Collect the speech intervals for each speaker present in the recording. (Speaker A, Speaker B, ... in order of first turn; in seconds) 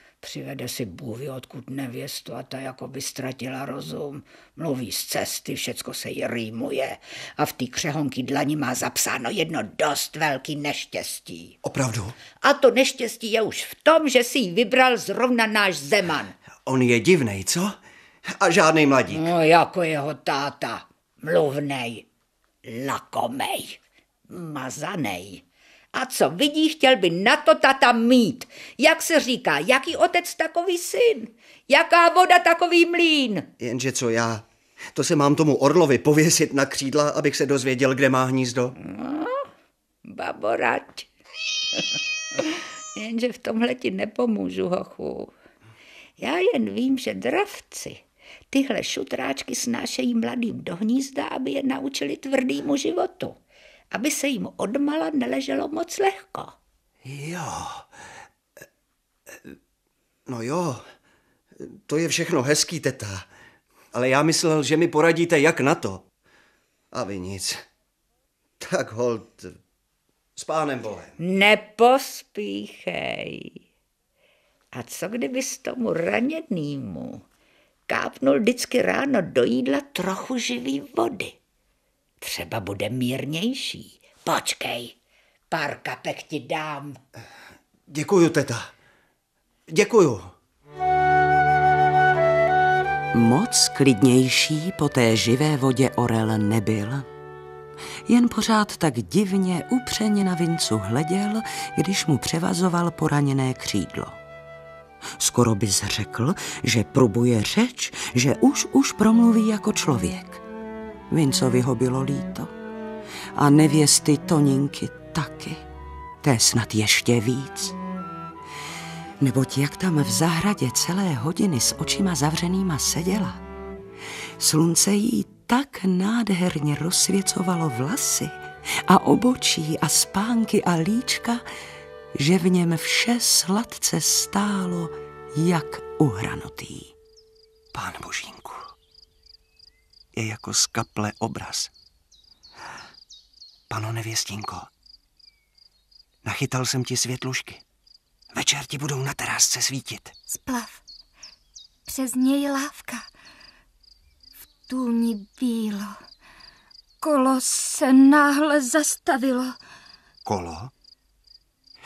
Speaker A: 0.2-11.5, 12.4-16.4, 19.1-22.1, 22.6-33.5, 38.8-39.5, 40.0-41.1, 41.7-45.4, 46.2-53.4, 53.9-56.6, 71.2-73.6, 74.7-77.2, 77.9-81.4, 82.2-85.0, 85.5-87.0
Speaker B: 11.6-12.2, 16.6-19.3, 33.6-34.4, 35.0-38.8, 57.0-57.9, 60.3-60.9, 61.6-63.3, 63.9-66.1, 66.9-67.6, 68.6-69.6, 70.4-71.2, 87.9-88.7, 89.7-90.3, 137.7-138.7, 140.1-141.7, 143.7-144.7, 146.2-147.6, 148.3-150.2, 160.2-160.7
Speaker C: 93.1-97.1, 98.1-104.2, 105.2-110.4, 111.1-112.5, 113.3-115.6, 116.2-117.8, 119.2-123.4, 124.4-131.4, 132.1-136.9
Speaker D: 150.3-150.8, 151.9-153.1, 154.7-156.0, 157.0-159.6